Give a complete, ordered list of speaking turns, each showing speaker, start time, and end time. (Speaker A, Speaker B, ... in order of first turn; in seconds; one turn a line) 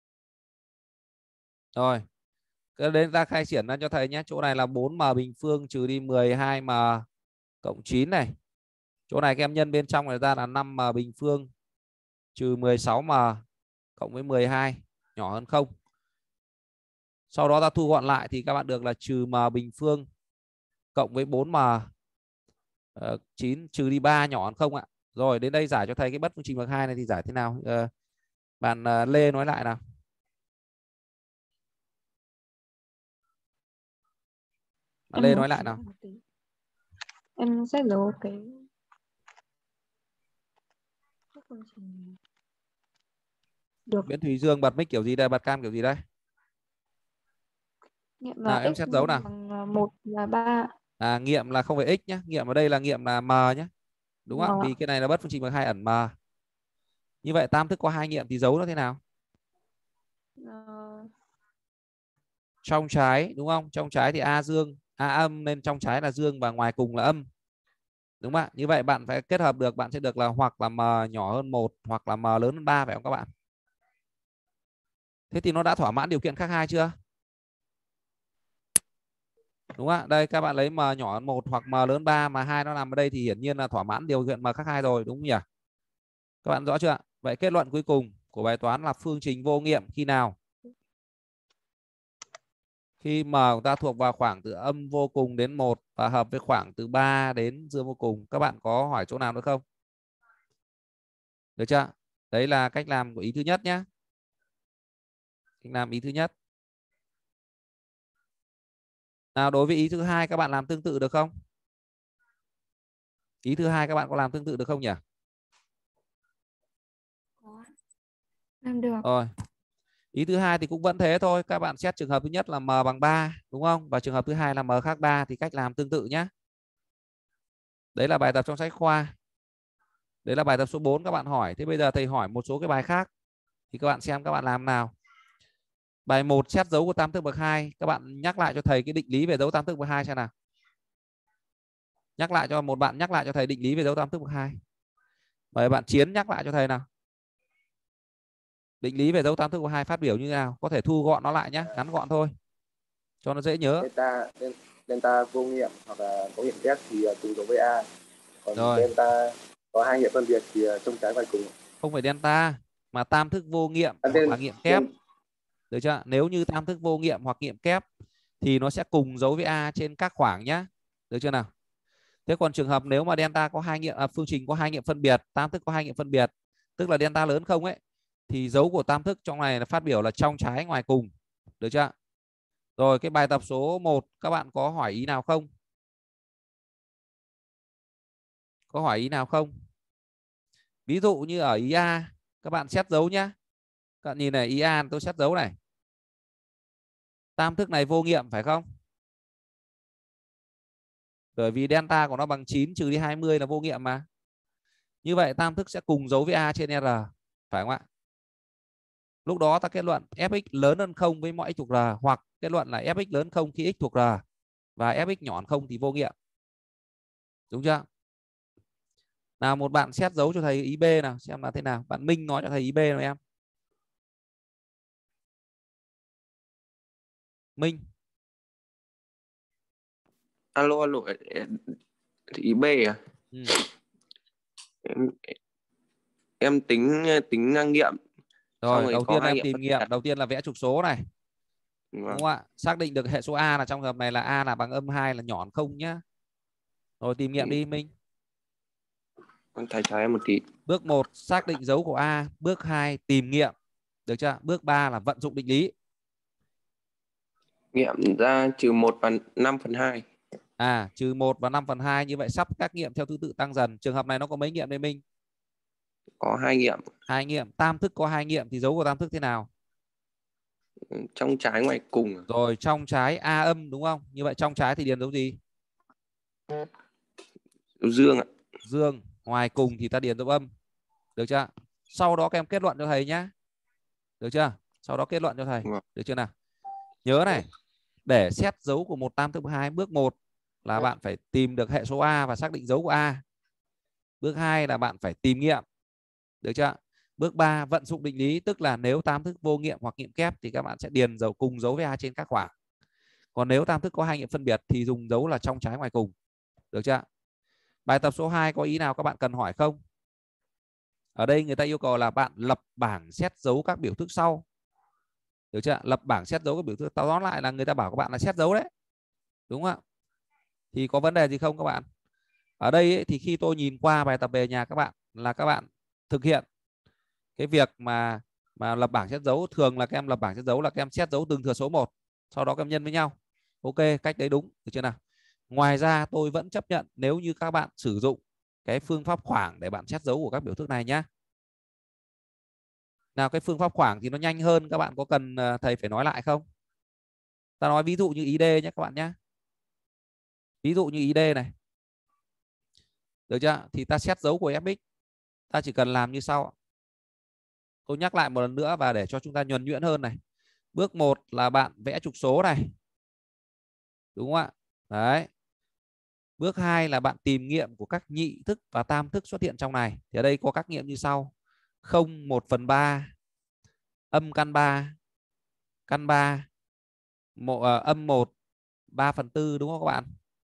Speaker A: 1.7-2.0
Speaker A: 2.8-7.0
Speaker A: 7.6-8.3
Speaker A: 9.1-11.5
Speaker A: 12.3-13.4
Speaker A: 14.0-15.7
Speaker A: 17.3-20.1
Speaker A: 20.9-21.9
Speaker A: 22.9-27.9
Speaker A: 28.6-29.8
Speaker A: 35.1-35.8
Speaker B: 35.1-36.2
Speaker B: 37.4-38.5
Speaker B: 41.3-42.2
Speaker A: 44.0-46.0
Speaker B: 48.2-50.7
Speaker A: 48.5-49.2
Speaker A: 51.0-53.7
Speaker A: 54.2-56.1
Speaker B: 54.3-54.7
Speaker A: 57.2-59.0
Speaker B: 60.4-61.1
Speaker A: 62.6-67.2
Speaker A: 68.2-73.3
Speaker A: 75.3-76.9
Speaker A: 79.8-85.4
Speaker A: 86.4-90.3
Speaker A: 93.0-99.6
Speaker A: 101.6-103.8
Speaker A: 105.6-106.3
Speaker A: 109.3-111.3
Speaker A: 113.4-115.0
Speaker B: 118.6-119.0
Speaker A: 119.0-119.3
Speaker A: 120.1-126.3
Speaker A: 127.9-129.1
Speaker A: 130.2-133.1
Speaker A: 133.7-134.9
Speaker A: 136.1-140.3
Speaker A: 142.2-144.6
Speaker A: 145.5-146.8
Speaker A: 148.8-152.3
Speaker A: 153.2-153.9
Speaker C: 153.8-157.9
Speaker C: 158.4-161.5
Speaker A: 158.5-158.9
Speaker A: 161.8-164.8
Speaker C: 164.0-164.8
Speaker A: 165.7-167.8
Speaker A: 168.4-171.5
Speaker A: 172.3-181.9
Speaker A: 182.8-185.5
Speaker A: 188.7-189.5
Speaker A: 190.9-193.3
Speaker A: 194.0-195.5
Speaker A: 197.4-198.6
Speaker A: 201.3-204.0
Speaker A: 205.0-207.8
Speaker A: 209.2-214.2
Speaker A: 214.8-216.1
Speaker A: 217.5-217.8
Speaker A: 219.4-223.2
Speaker D: 230.5-231.7
Speaker D: 232.3-233.0
Speaker A: 233.3-233.6
Speaker D: 234.8-235.3
Speaker D: 236.4-238.0
Speaker A: 238.6-241.0
Speaker D: 238.6-239.8
Speaker D: 241.9-242.2
Speaker A: 242.1-246.0
Speaker A: 247.0-247.9
Speaker D: 249.5-250.4
Speaker A: 250.7-253.5
Speaker A: 254.1-255.7
Speaker D: 257.7-260.0
Speaker A: 260.6-265.0
Speaker D: 266.2-266.9
Speaker A: 267.1-269.5
Speaker D: 270.9-272.2
Speaker A: 272.3-275.4
Speaker D: 277.8-278.2
Speaker A: 278.6-280.5
Speaker A: 281.2-283.3
Speaker A: 284.2-286.3
Speaker A: 287.0-287.4
Speaker A: 288.1-293.2
Speaker A: 294.2-295.6
Speaker A: 296.4-302.5
Speaker A: 303.3-306.1
Speaker A: 306.7-307.0
Speaker A: 307.9-309.8
Speaker A: 311.1-314.4
Speaker A: 315.5-318.7
Speaker A: 319.5-319.8
Speaker A: 320.7-321.9
Speaker A: 322.6-326.4
Speaker A: 327.4-335.0
Speaker A: 335.5-341.1
Speaker A: 343.1-346.4
Speaker A: 347.6-349.1
Speaker A: 350.6-351.5
Speaker A: 353.3-354.8
Speaker A: 355.5-356.5
Speaker A: 357.9-360.2
Speaker A: 360.7-362.7
Speaker A: 364.1-365.3
Speaker A: 366.4-371.3
Speaker A: 371.8-373.1
Speaker A: 374.1-374.9
Speaker A: 375.9-376.5
Speaker A: 377.4-378.3
Speaker A: 378.9-380.1